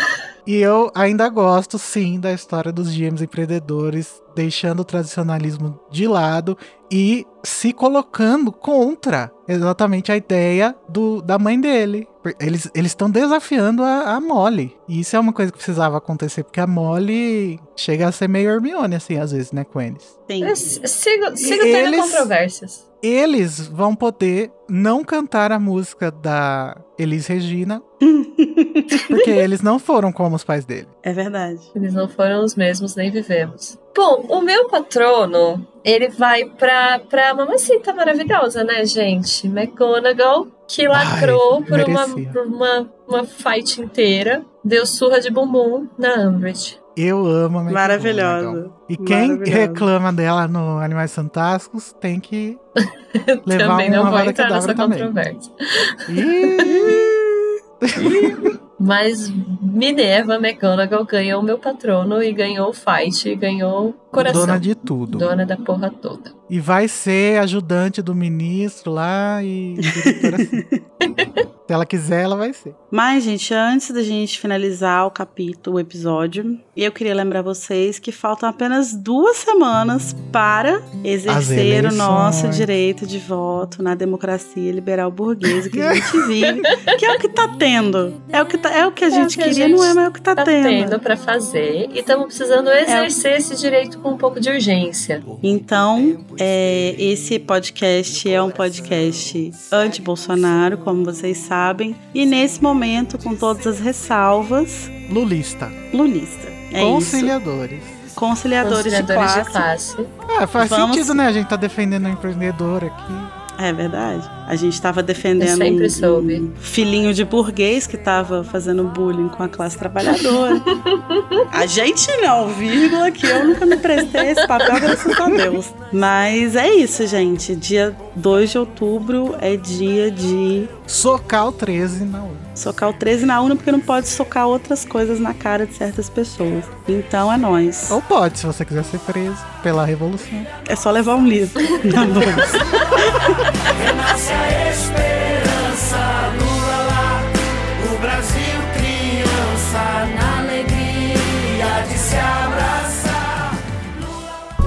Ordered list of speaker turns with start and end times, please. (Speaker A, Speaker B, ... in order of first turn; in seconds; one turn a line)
Speaker A: 0.4-20.1
Speaker B: 20.3-20.6
Speaker C: 20.4-22.8
Speaker A: 21.4-22.3
Speaker A: 23.0-27.8
Speaker B: 28.0-29.2
Speaker A: 28.9-30.9
Speaker B: 31.0-31.7
Speaker C: 31.7-46.8
Speaker A: 40.9-42.4
Speaker A: 47.0-52.6
Speaker B: 47.7-49.9
Speaker C: 52.8-56.7
Speaker A: 53.5-55.1
Speaker A: 56.1-57.1
Speaker B: 56.7-57.4
Speaker A: 57.8-58.5
Speaker C: 58.8-66.3
Speaker A: 64.2-65.3
Speaker A: 66.5-70.6
Speaker B: 69.9-70.8
Speaker C: 71.0-71.4
Speaker A: 71.7-72.8
Speaker B: 72.9-91.0
Speaker A: 81.3-82.7
Speaker A: 85.7-86.6
Speaker C: 89.1-95.2
Speaker B: 92.8-93.1
Speaker B: 95.4-104.9
Speaker A: 105.1-105.8
Speaker B: 105.9-107.3
Speaker A: 106.7-108.0
Speaker B: 108.1-109.7
Speaker C: 108.6-110.1
Speaker A: 110.2-113.3
Speaker B: 110.6-111.2
Speaker B: 113.6-120.7
Speaker C: 115.4-116.5
Speaker C: 120.1-121.4
Speaker B: 121.5-130.7
Speaker C: 124.1-125.1
Speaker A: 130.9-132.5
Speaker B: 132.6-138.0
Speaker A: 137.9-140.5
Speaker B: 140.7-143.8
Speaker A: 142.3-142.6
Speaker A: 143.8-147.2
Speaker A: 147.8-153.3